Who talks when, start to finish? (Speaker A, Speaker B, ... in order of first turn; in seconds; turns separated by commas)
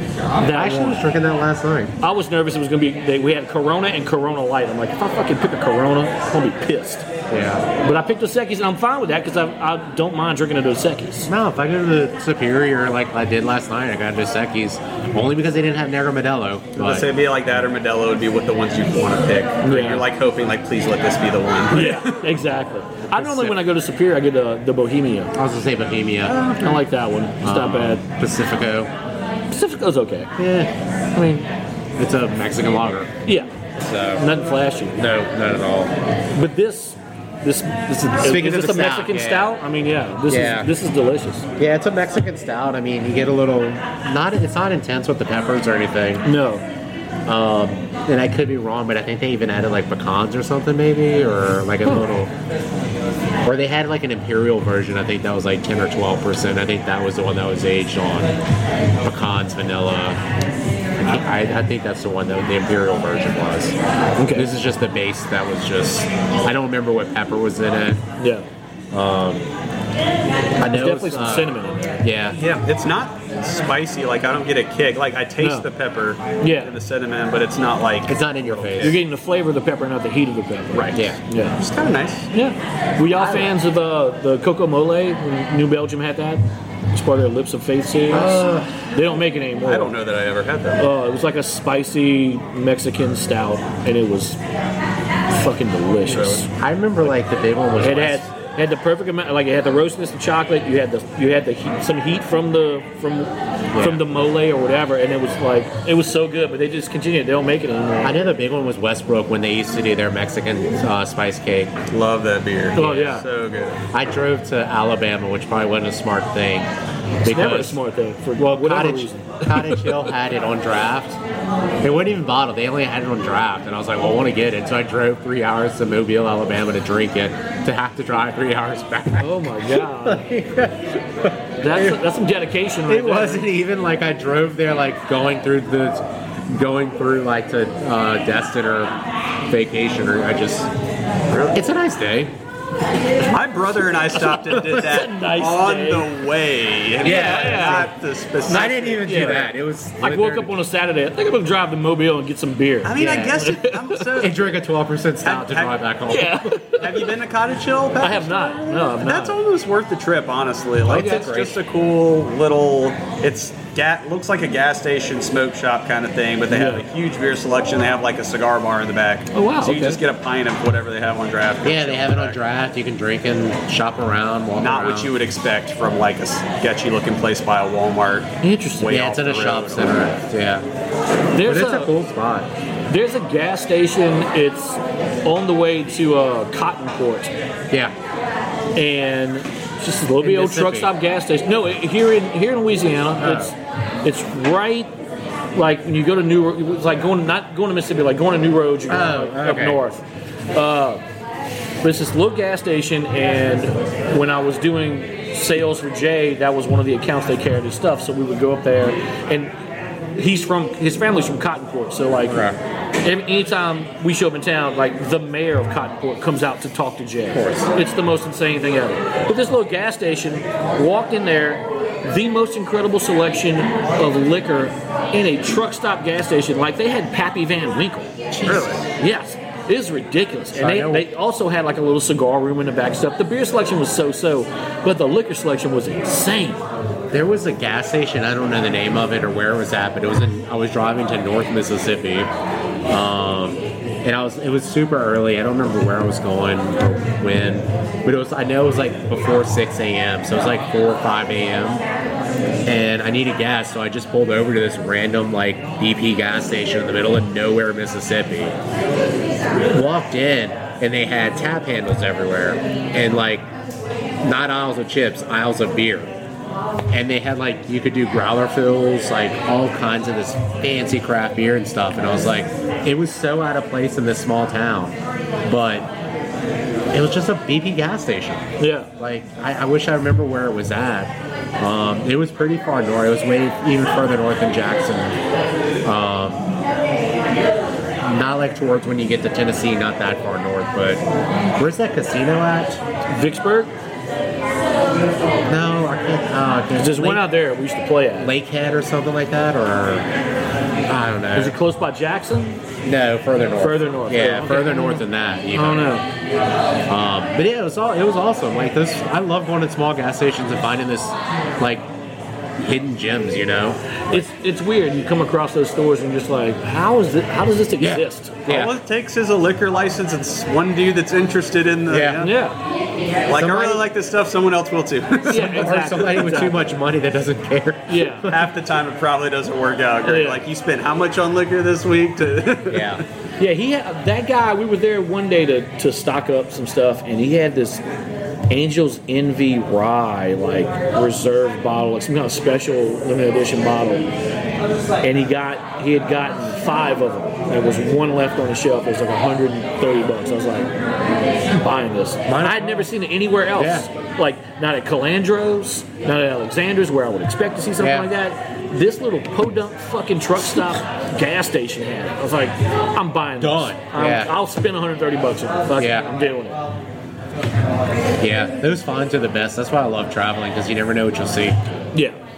Speaker A: 0.4-1.0, Speaker B: 0.5-1.9, Speaker A: 2.0-7.1, Speaker B: 7.3-7.7, Speaker A: 7.8-11.3, Speaker B: 11.3-17.1, Speaker C: 16.8-22.3, Speaker A: 19.6-20.1, Speaker A: 21.7-25.3, Speaker B: 23.1-23.6, Speaker B: 25.3-26.4, Speaker C: 26.2-26.8, Speaker A: 26.6-28.0, Speaker B: 27.4-28.9, Speaker A: 29.5-30.3, Speaker B: 30.4-30.7, Speaker A: 31.1-31.5, Speaker B: 32.0-33.1, Speaker B: 33.8-34.3, Speaker A: 34.2-35.0, Speaker B: 35.0-35.9, Speaker A: 36.4-41.5, Speaker B: 38.2-39.5, Speaker B: 40.3-40.7, Speaker B: 41.6-46.3, Speaker A: 46.2-46.6, Speaker B: 47.3-52.3, Speaker B: 53.5-58.3, Speaker B: 59.0-60.2, Speaker B: 61.0-63.8, Speaker A: 64.2-64.5, Speaker B: 64.3-68.0, Speaker A: 68.2-68.5, Speaker B: 68.9-69.5, Speaker B: 70.6-72.4, Speaker A: 70.7-72.0, Speaker C: 72.4-79.0, Speaker A: 75.4-75.7, Speaker A: 76.4-76.7, Speaker B: 78.1-79.0, Speaker A: 78.8-81.6, Speaker C: 80.7-81.1, Speaker B: 80.9-81.2, Speaker C: 81.6-82.3, Speaker A: 82.3-89.9, Speaker B: 83.2-83.5, Speaker B: 88.1-88.8, Speaker C: 89.6-90.9, Speaker A: 90.8-94.4, Speaker A: 95.3-96.5, Speaker B: 96.1-98.3, Speaker A: 97.8-108.2, Speaker B: 103.7-104.1, Speaker B: 108.0-111.7, Speaker C: 111.9-113.8, Speaker A: 112.8-113.2, Speaker B: 113.9-116.7, Speaker B: 117.2-117.8, Speaker A: 117.3-120.1, Speaker B: 118.4-121.2, Speaker B: 121.8-132.0, Speaker A: 129.2-130.3, Speaker A: 131.6-133.5, Speaker B: 132.9-138.9, Speaker B: 139.5-140.7, Speaker B: 141.5-142.3, Speaker C: 143.3-149.5, Speaker A: 144.2-146.1, Speaker B: 147.0-147.9, Speaker A: 147.0-147.9, Speaker A: 148.5-149.5, Speaker B: 148.5-150.5, Speaker A: 150.0-154.1, Speaker C: 152.8-154.5, Speaker B: 153.0-153.5, Speaker B: 154.2-156.6, Speaker C: 155.2-155.8, Speaker A: 156.1-157.1, Speaker C: 156.8-172.4, Speaker A: 158.0-159.4, Speaker B: 160.8-161.6, Speaker A: 166.5-166.8, Speaker A: 169.3-170.0, Speaker B: 171.6-175.1, Speaker C: 174.6-180.2, Speaker A: 178.4-178.9, Speaker B: 178.9-180.7, Speaker A: 181.3-181.9, Speaker B: 181.4-182.5, Speaker A: 182.9-187.3, Speaker A: 188.8-194.9, Speaker B: 190.2-190.9, Speaker B: 193.2-193.5, Speaker A: 195.5-201.0, Speaker B: 198.9-199.8, Speaker A: 201.8-209.5, Speaker A: 210.2-212.5, Speaker B: 212.3-212.6, Speaker A: 213.0-228.1, Speaker B: 217.3-217.7, Speaker B: 228.3-228.8, Speaker C: 228.4-228.8, Speaker A: 229.0-236.6, Speaker B: 230.6-231.1, Speaker B: 237.1-242.3, Speaker B: 242.9-251.8, Speaker B: 252.7-258.6, Speaker B: 259.7-263.5, Speaker B: 264.2-266.1, Speaker B: 266.9-275.9, Speaker B: 276.9-285.2, Speaker A: 278.6-278.9, Speaker B: 285.9-286.5, Speaker B: 288.0-291.0, Speaker B: 291.6-292.8, Speaker A: 293.1-293.7, Speaker B: 295.5-297.3, Speaker A: 296.8-298.3, Speaker B: 298.2-300.1, Speaker B: 300.9-301.6, Speaker A: 301.4-302.6, Speaker B: 302.8-306.0, Speaker A: 303.6-306.1, Speaker B: 306.9-311.9, Speaker B: 312.6-314.3, Speaker A: 314.1-318.4, Speaker B: 317.8-318.8, Speaker C: 318.5-322.4, Speaker B: 321.9-322.3, Speaker A: 322.2-322.6, Speaker C: 323.3-326.0, Speaker B: 323.3-323.8, Speaker A: 325.3-326.6, Speaker B: 325.3-328.4, Speaker A: 327.9-328.3, Speaker C: 328.3-333.0, Speaker A: 330.1-330.4, Speaker B: 332.7-333.0, Speaker A: 333.4-337.8, Speaker A: 338.5-344.1, Speaker A: 345.0-350.7, Speaker A: 351.5-366.6, Speaker B: 352.3-352.9, Speaker B: 353.6-353.9, Speaker B: 357.8-358.1, Speaker B: 363.4-364.4, Speaker B: 365.8-366.1, Speaker B: 368.2-371.9